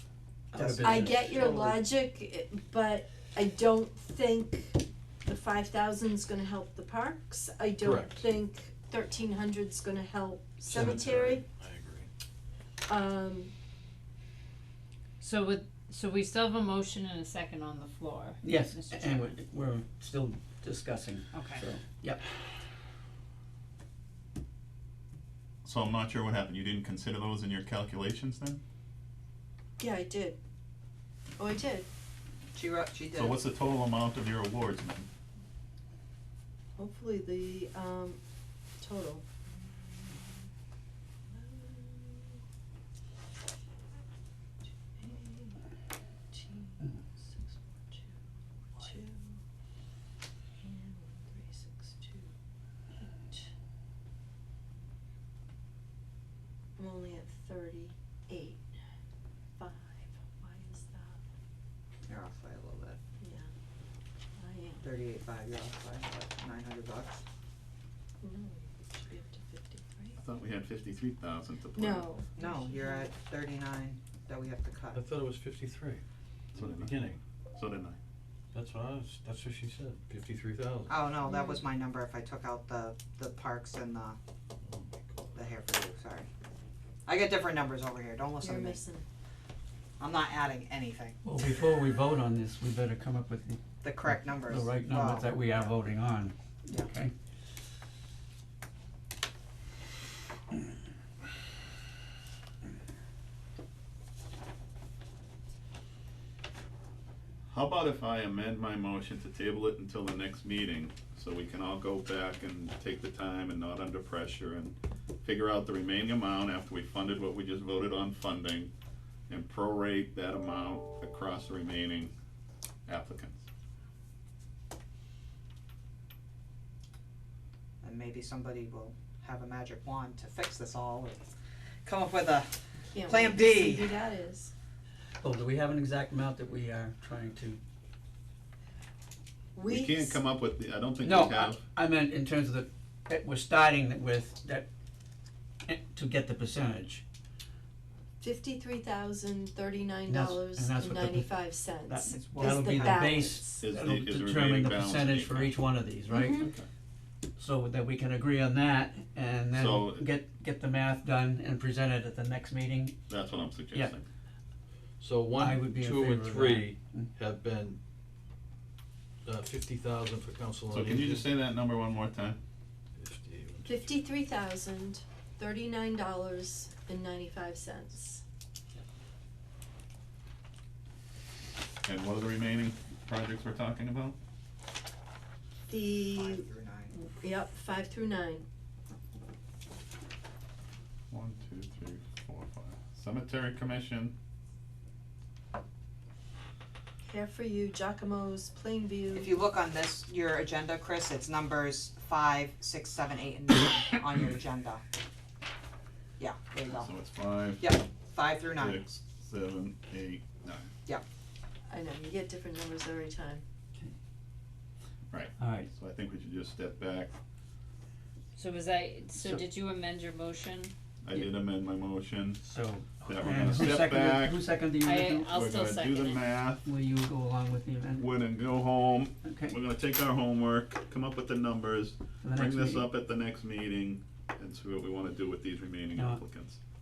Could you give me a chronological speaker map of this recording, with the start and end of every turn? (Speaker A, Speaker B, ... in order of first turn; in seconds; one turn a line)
Speaker A: 0.5-1.4
Speaker B: 0.5-1.8
Speaker C: 0.8-11.4
Speaker B: 7.8-8.3
Speaker B: 10.6-12.1
Speaker C: 12.9-13.5
Speaker D: 15.2-19.4
Speaker A: 18.4-22.2
Speaker D: 21.3-21.6
Speaker E: 25.6-28.6
Speaker C: 29.8-30.4
Speaker C: 31.4-31.9
Speaker F: 32.5-33.4
Speaker E: 33.1-35.1
Speaker C: 36.8-38.2
Speaker C: 38.8-40.3
Speaker C: 41.3-42.4
Speaker C: 45.0-45.6
Speaker C: 46.3-48.1
Speaker C: 48.8-49.4
Speaker C: 50.6-52.3
Speaker C: 56.8-58.6
Speaker C: 59.6-61.2
Speaker F: 62.1-63.0
Speaker C: 63.2-63.5
Speaker C: 64.4-64.9
Speaker F: 64.8-67.2
Speaker C: 68.2-70.2
Speaker E: 70.2-72.1
Speaker C: 71.7-73.1
Speaker F: 72.4-75.0
Speaker B: 74.9-76.0
Speaker E: 76.5-77.0
Speaker B: 76.5-77.2
Speaker E: 77.5-78.0
Speaker B: 78.5-81.0
Speaker F: 80.9-84.2
Speaker C: 81.2-81.6
Speaker B: 84.6-85.4
Speaker F: 85.3-86.3
Speaker F: 87.1-88.8
Speaker C: 88.4-89.0
Speaker F: 90.0-91.2
Speaker A: 91.2-97.1
Speaker F: 93.8-95.8
Speaker E: 107.5-118.7
Speaker E: 119.3-122.1
Speaker E: 122.9-123.5
Speaker F: 127.8-131.3
Speaker F: 131.8-134.0
Speaker C: 132.9-134.5
Speaker A: 135.2-137.6
Speaker C: 139.5-140.2
Speaker E: 139.7-141.7
Speaker A: 141.0-144.7
Speaker A: 145.7-147.0
Speaker C: 148.2-153.6
Speaker A: 150.1-156.5
Speaker F: 152.2-152.7
Speaker E: 153.6-155.6
Speaker C: 156.1-156.5
Speaker E: 156.4-156.7
Speaker A: 157.4-163.1
Speaker E: 159.5-160.1
Speaker E: 163.1-164.1
Speaker B: 165.0-167.8
Speaker A: 165.4-167.1
Speaker B: 169.2-171.3
Speaker E: 170.7-172.4
Speaker B: 173.0-173.8
Speaker C: 173.7-178.2
Speaker E: 181.8-184.2
Speaker C: 185.7-188.5
Speaker F: 186.1-186.9
Speaker E: 191.1-194.1
Speaker C: 197.0-199.3
Speaker F: 199.1-204.8
Speaker F: 206.2-206.9
Speaker E: 206.7-207.8
Speaker F: 207.6-208.8
Speaker E: 208.5-210.7
Speaker C: 211.7-213.4
Speaker E: 215.1-217.1
Speaker A: 215.4-215.7
Speaker D: 218.3-220.7
Speaker E: 221.0-222.4
Speaker A: 222.4-225.3
Speaker E: 223.0-224.4
Speaker D: 224.8-226.2
Speaker E: 225.3-226.7
Speaker A: 226.6-228.0
Speaker E: 228.0-236.6
Speaker A: 229.2-229.6
Speaker A: 232.2-232.8
Speaker A: 235.9-236.2